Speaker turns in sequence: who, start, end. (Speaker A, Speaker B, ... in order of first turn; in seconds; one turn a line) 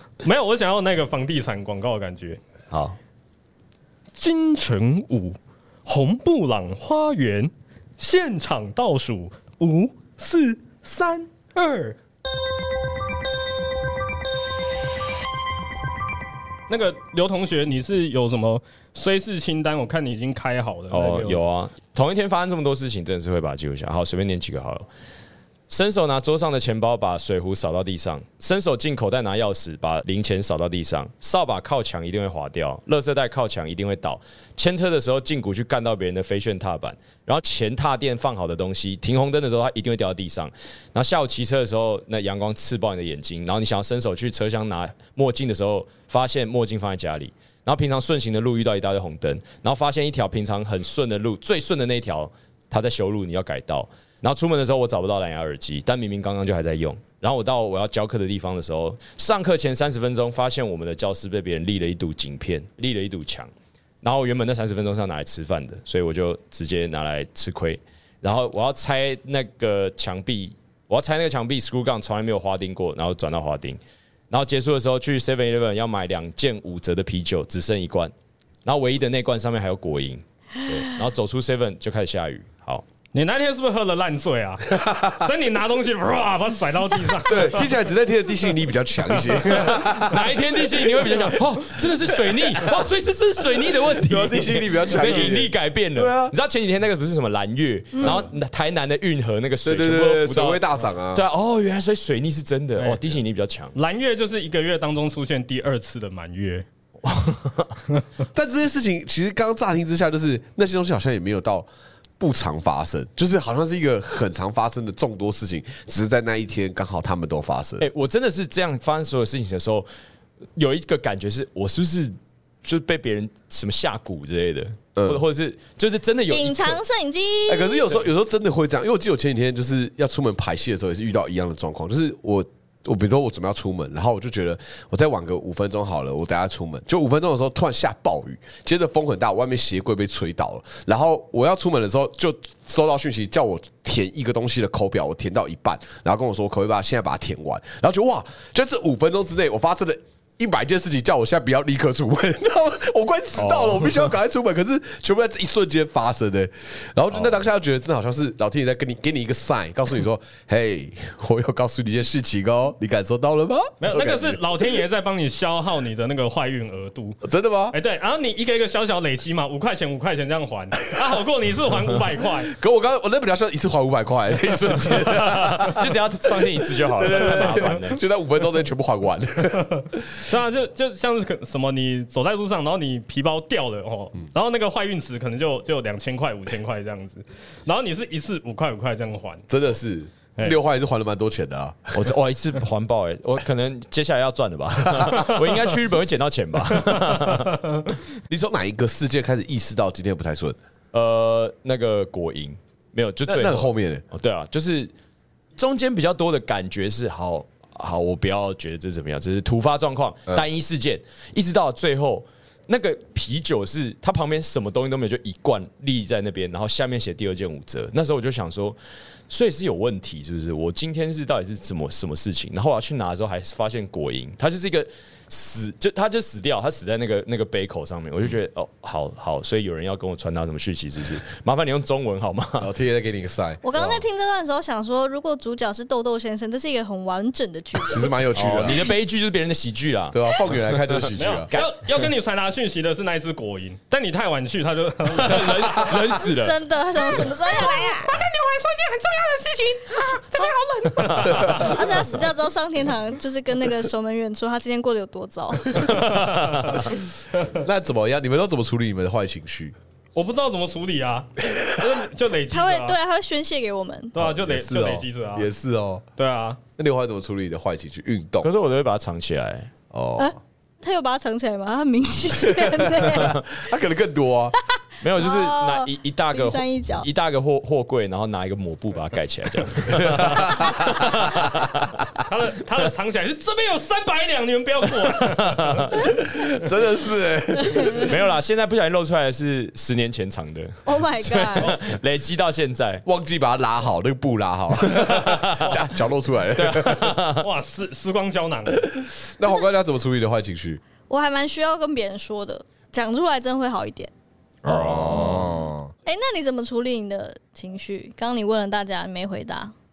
Speaker A: 0.2-2.4
Speaker B: 2.7-3.0
Speaker A: 4.2-12.0
Speaker A: 16.7-21.4
Speaker B: 20.9-24.9
Speaker B: 25.7-63.5
Speaker B: 64.0-73.8
Speaker B: 74.3-78.1
Speaker B: 78.6-82.8
Speaker A: 83.1-87.7
Speaker C: 84.7-85.2
Speaker C: 87.2-90.4
Speaker A: 89.2-89.7
Speaker B: 89.6-103.8
Speaker C: 94.0-96.3
Speaker D: 98.0-98.2
Speaker C: 99.6-101.2
Speaker A: 102.8-103.2
Speaker A: 103.7-106.7
Speaker B: 107.0-107.7
Speaker C: 108.3-111.7
Speaker C: 112.2-117.9
Speaker B: 117.8-119.9
Speaker B: 120.6-126.8
Speaker C: 125.0-125.2
Speaker D: 126.3-127.9
Speaker C: 127.5-164.4
Speaker B: 153.3-154.1
Speaker A: 163.8-167.2
Speaker C: 167.2-167.7
Speaker A: 167.7-172.5
Speaker C: 172.5-180.2
Speaker B: 174.8-178.0
Speaker A: 179.6-189.4
Speaker C: 189.5-192.1
Speaker B: 191.9-197.5
Speaker A: 196.9-197.8
Speaker C: 198.3-200.6
Speaker B: 200.9-204.9
Speaker C: 203.2-204.0
Speaker B: 205.6-218.8
Speaker B: 219.3-232.7
Speaker C: 232.6-234.0
Speaker D: 233.6-238.1
Speaker C: 237.8-238.9
Speaker B: 238.3-241.8
Speaker C: 240.1-241.5
Speaker A: 241.2-246.0
Speaker B: 245.1-246.6
Speaker D: 246.2-248.1
Speaker A: 247.1-251.8
Speaker D: 251.3-256.2
Speaker A: 255.9-257.6
Speaker C: 257.5-259.8
Speaker A: 260.2-263.0
Speaker C: 261.4-261.9
Speaker D: 262.5-264.2
Speaker A: 264.1-265.5
Speaker C: 264.2-266.0
Speaker A: 266.2-266.6
Speaker C: 266.8-268.5
Speaker B: 268.4-269.7
Speaker C: 269.9-270.4
Speaker D: 270.2-273.4
Speaker C: 272.4-274.6
Speaker B: 275.0-281.9
Speaker D: 275.2-277.1
Speaker C: 279.9-281.1
Speaker A: 282.2-285.9
Speaker D: 285.9-286.2
Speaker C: 286.2-288.2
Speaker D: 287.7-288.1
Speaker B: 288.0-293.0
Speaker D: 290.9-291.8
Speaker C: 293.1-297.2
Speaker B: 295.0-295.8
Speaker B: 296.6-297.5
Speaker A: 297.4-298.9
Speaker C: 299.0-300.8
Speaker D: 301.1-304.1
Speaker C: 304.6-305.9
Speaker B: 304.7-305.4
Speaker D: 305.2-309.7